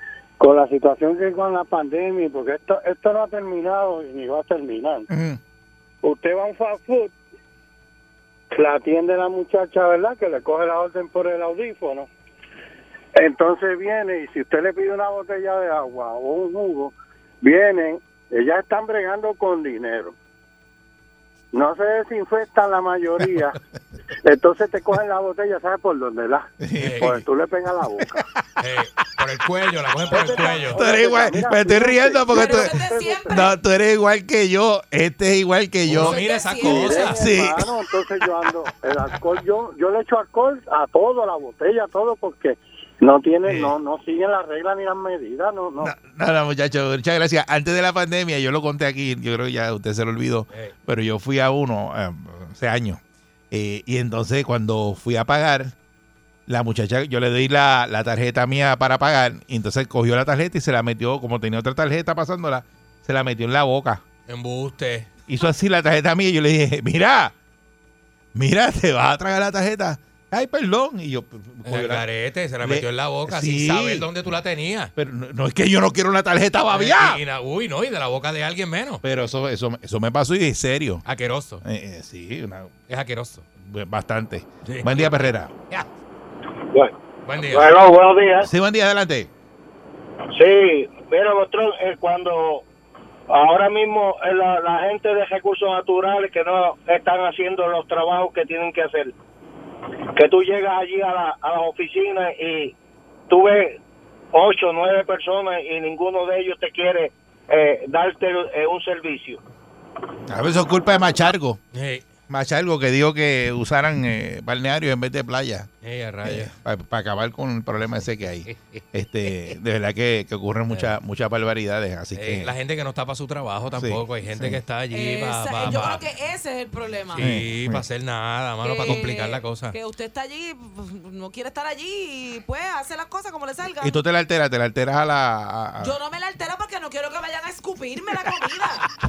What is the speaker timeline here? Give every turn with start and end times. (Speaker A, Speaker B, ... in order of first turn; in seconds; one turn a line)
Speaker A: 0.4-5.1
Speaker B: 5.1-5.4
Speaker A: 6.0-7.1
Speaker A: 8.5-12.1
Speaker A: 13.2-20.1
Speaker A: 21.5-23.6
Speaker A: 24.2-26.5
Speaker B: 26.6-27.0
Speaker C: 26.8-27.2
Speaker A: 27.0-28.1
Speaker C: 28.6-30.8
Speaker A: 30.1-33.5
Speaker B: 30.7-37.6
Speaker D: 32.3-33.5
Speaker C: 35.9-37.2
Speaker D: 36.0-37.1
Speaker A: 36.6-45.9
Speaker B: 43.5-43.7
Speaker B: 45.8-53.0
Speaker B: 53.5-55.7
Speaker B: 56.5-64.0
Speaker C: 64.3-65.1
Speaker B: 65.3-67.3
Speaker B: 68.3-72.0
Speaker C: 71.7-74.9
Speaker B: 72.6-74.1
Speaker B: 75.0-77.2
Speaker C: 76.7-79.0
Speaker B: 79.0-81.0
Speaker C: 81.0-81.6
Speaker B: 81.6-82.7
Speaker C: 82.9-83.5
Speaker B: 83.6-85.5
Speaker C: 84.7-85.9
Speaker C: 87.3-87.7
Speaker E: 87.5-88.5
Speaker B: 88.4-89.3
Speaker E: 90.4-92.6
Speaker E: 93.6-94.2
Speaker E: 94.7-99.1
Speaker E: 100.3-102.7
Speaker E: 103.3-103.8
Speaker E: 104.6-109.4
Speaker B: 110.3-111.6
Speaker C: 111.7-112.1
Speaker B: 112.3-115.7
Speaker C: 115.8-116.5
Speaker B: 116.2-122.5
Speaker C: 118.5-118.8
Speaker C: 120.7-121.0
Speaker C: 122.2-126.0
Speaker B: 123.7-124.6
Speaker D: 124.9-127.3
Speaker C: 127.1-129.8
Speaker B: 127.2-127.8
Speaker D: 128.6-134.0
Speaker B: 133.8-135.9
Speaker D: 135.8-138.9